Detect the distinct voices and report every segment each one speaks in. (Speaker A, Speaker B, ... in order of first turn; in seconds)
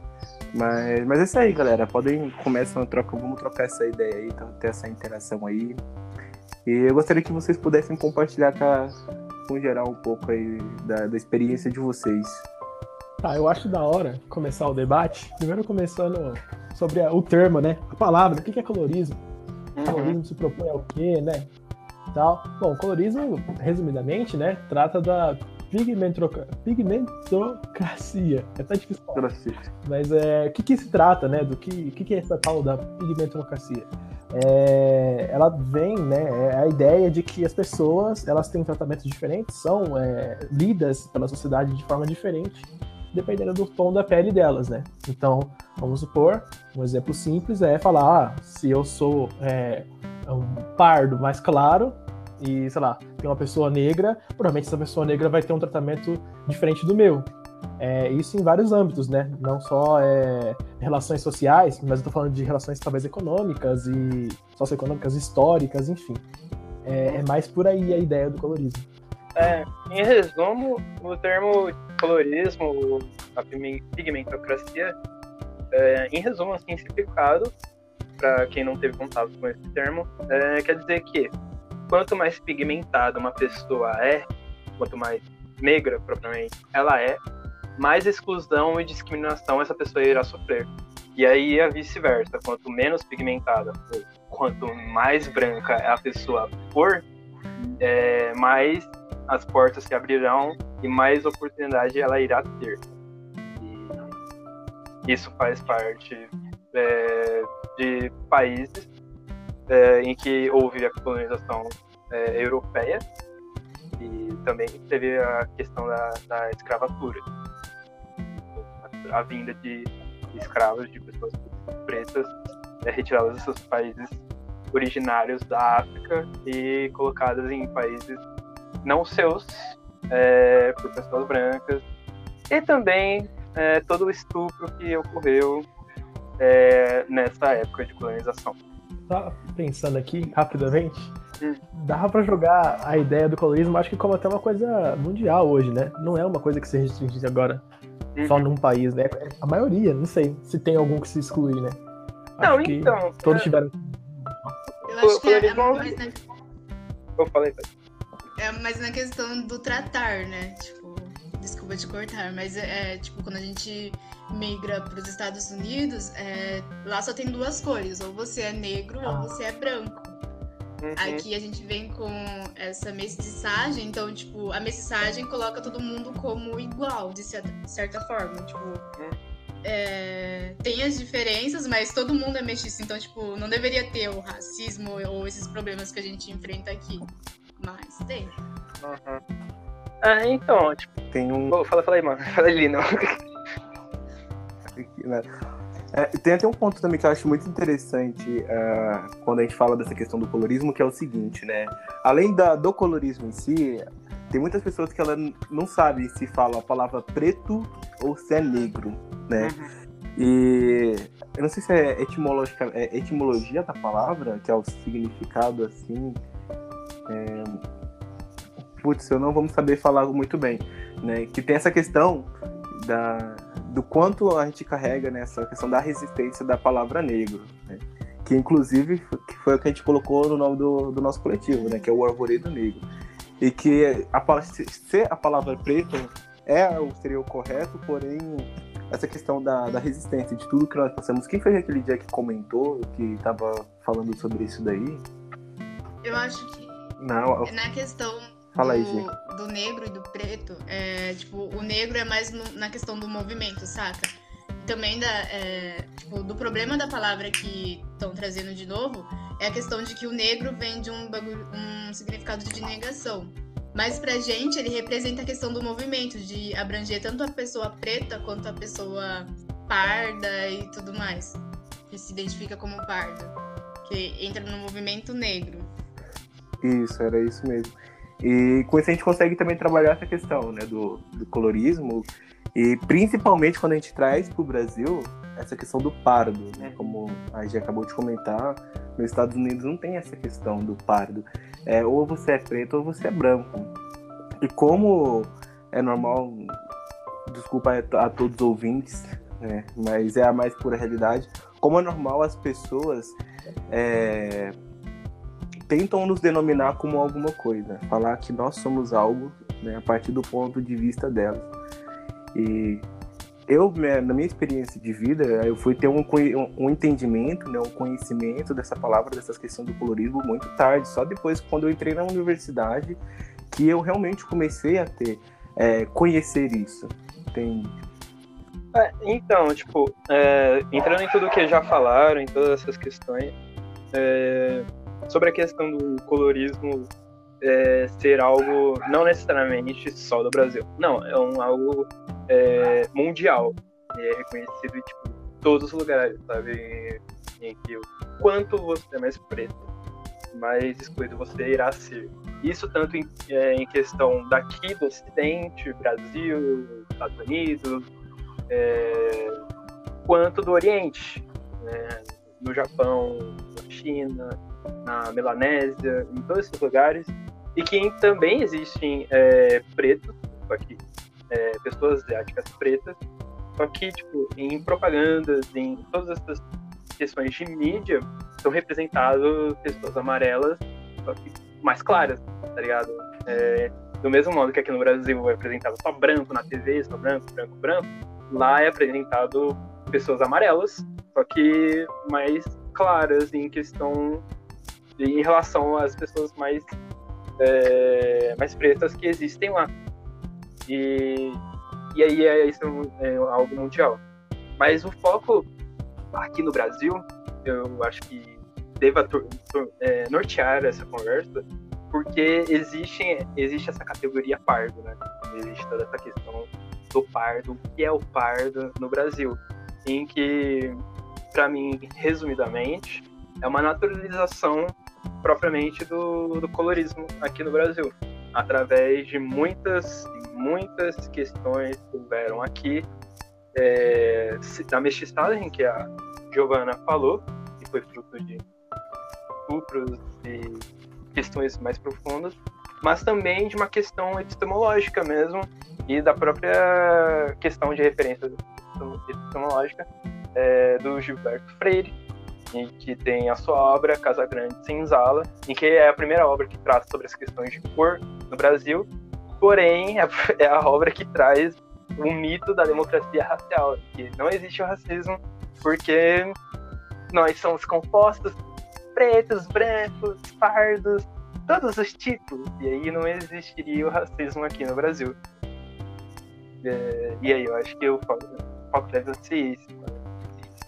Speaker A: 0.5-5.8, 6.7-8.9, 9.5-12.5, 29.1-29.7, 191.1-191.5, 194.8-195.3, 195.9-209.6, 210.2-216.2, 217.1-217.6, 218.8-232.8, 233.4-245.1, 247.0-247.5, 248.6-249.1, 276.6-293.7, 294.4-296.6, 297.3-303.2, 303.7-304.6, 305.7-311.5, 312.3-312.9, 313.5-323.0, 323.5-327.8
Speaker B: 13.2-19.2, 19.9-21.5, 22.1-29.3, 29.8-57.3, 57.8-66.2, 66.8-68.9, 139.1-141.2, 141.8-147.6, 148.3-151.8, 152.4-154.5
Speaker C: 19.8-20.2, 69.3-75.0, 75.7-77.5, 78.2-81.3, 81.9-84.3, 84.8-87.2, 87.8-97.0, 97.6-102.9, 103.6-104.1, 105.1-108.9, 109.7-113.0, 114.0-117.2, 118.3-124.2, 124.7-128.2, 128.8-131.8, 132.5-135.7, 136.4-138.6, 148.2-148.4, 152.4-153.5, 155.0-156.0, 157.2-157.7, 170.8-171.2, 188.8-189.2, 190.0-190.9, 191.5-193.2, 209.4-209.7, 286.6-287.0, 328.7-333.3, 333.9-336.9, 337.4-349.7, 350.3-357.8, 358.5-359.4, 360.1-370.8, 371.3-373.0, 373.6-376.4, 377.0-394.2, 395.0-396.6, 397.4-399.7, 400.7-401.4, 401.9-404.0, 404.6-405.4, 406.1-420.8, 421.3-432.9, 433.6-438.4, 439.5-449.8, 450.4-451.9, 452.5-458.9, 459.4-466.4, 467.1-468.4, 468.9-475.1, 476.6-480.5
Speaker D: 154.8-156.2, 158.4-170.2, 171.0-178.8, 179.6-188.3, 231.5-231.9, 246.0-275.7, 383.3-383.7